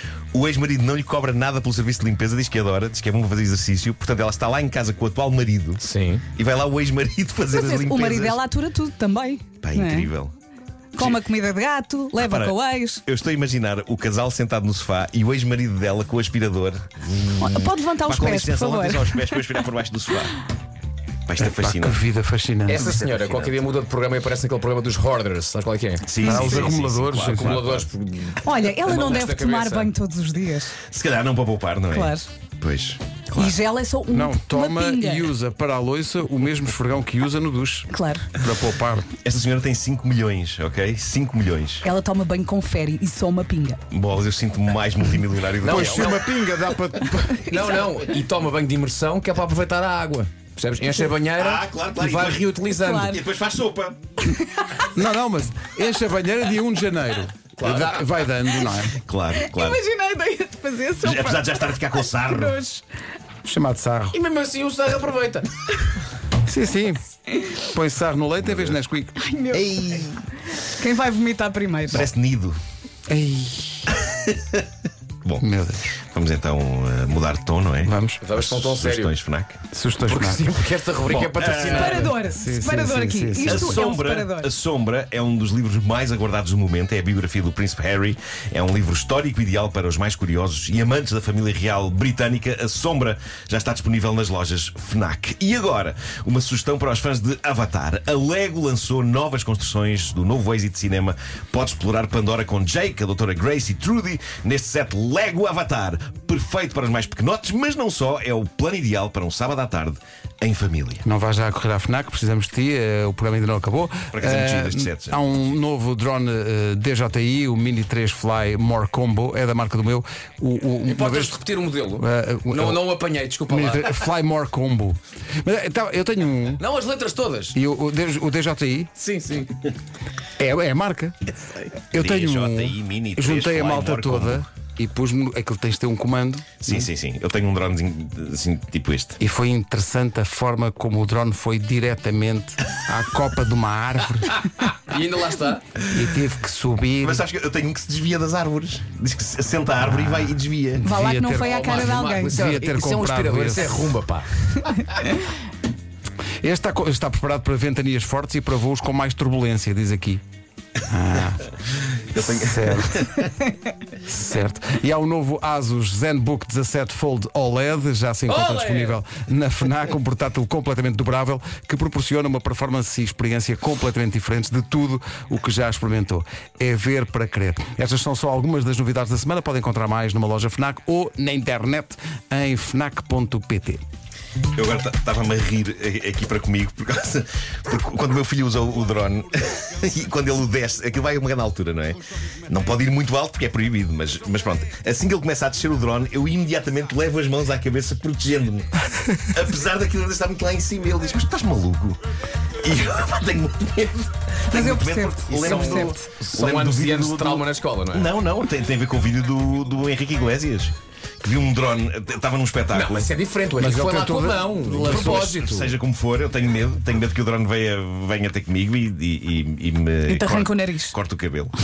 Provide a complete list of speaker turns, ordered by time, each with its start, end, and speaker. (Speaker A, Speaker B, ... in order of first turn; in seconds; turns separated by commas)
Speaker A: 0.3-8.4, Speaker B: 5.8-6.2, Speaker C: 7.5-10.1, Speaker A: 9.6-10.3, Speaker C: 10.9-13.0, Speaker A: 12.2-20.4, Speaker C: 17.4-19.5, Speaker A: 21.3-22.0, Speaker D: 21.4-22.9, Speaker B: 22.7-26.1, Speaker A: 22.7-23.6, Speaker A: 26.0-27.9, Speaker D: 26.2-27.6, Speaker C: 26.2-26.7, Speaker B: 27.1-29.9, Speaker C: 28.4-30.8, Speaker A: 30.9-33.6, Speaker C: 31.9-32.2, Speaker C: 33.4-35.3, Speaker D: 34.1-39.1, Speaker C: 37.9-38.3, Speaker A: 39.2-41.9, Speaker C: 41.8-43.8, Speaker A: 43.9-46.2, Speaker B: 45.6-46.2, Speaker D: 45.6-47.5, Speaker B: 47.5-53.2, Speaker C: 47.5-48.0, Speaker A: 51.3-54.0, Speaker C: 52.8-53.2, Speaker C: 54.3-54.7, Speaker D: 54.9-59.0, Speaker B: 57.6-58.0, Speaker A: 59.0-59.8, Speaker C: 59.4-62.8, Speaker A: 61.0-62.6, Speaker D: 63.4-64.2, Speaker B: 64.1-65.5, Speaker D: 66.4-67.0, Speaker D: 67.6-69.2, Speaker A: 68.4-68.8, Speaker C: 69.2-72.0, Speaker A: 69.5-70.1, Speaker A: 71.9-72.6, Speaker D: 73.1-73.8, Speaker A: 73.9-74.6, Speaker D: 75.4-75.9, Speaker A: 76.0-79.6, Speaker D: 77.8-78.2, Speaker B: 78.2-79.2, Speaker D: 79.7-80.5, Speaker B: 80.0-82.2, Speaker A: 81.1-82.1, Speaker C: 81.6-84.5, Speaker D: 82.2-83.8, Speaker A: 83.4-111.0, Speaker D: 111.0-121.4, Speaker A: 114.1-115.2, Speaker B: 120.8-124.1, Speaker D: 122.0-122.8, Speaker D: 123.5-126.6, Speaker B: 126.6-127.5, Speaker D: 127.5-128.9, Speaker B: 129.0-129.6, Speaker D: 130.4-131.2, Speaker A: 131.6-134.4, Speaker D: 131.9-136.8, Speaker A: 136.6-139.2, Speaker D: 139.2-144.5, Speaker B: 144.7-145.6, Speaker D: 145.8-147.2, Speaker A: 147.0-150.8, Speaker D: 149.9-153.9, Speaker C: 150.8-152.3, Speaker B: 151.3-154.3, Speaker C: 154.6-155.2, Speaker D: 156.4-160.2, Speaker D: 160.9-161.5, Speaker A: 162.1-163.2, Speaker D: 162.2-163.1, Speaker D: 164.1-183.8, Speaker B: 168.3-169.0, Speaker A: 184.6-198.7, Speaker A: 199.3-202.0, Speaker A: 202.6-213.0, Speaker C: 204.5-206.0, Speaker B: 205.3-208.1, Speaker B: 212.7-215.7, Speaker D: 213.6-215.5, Speaker A: 214.8-221.5, Speaker C: 220.1-220.9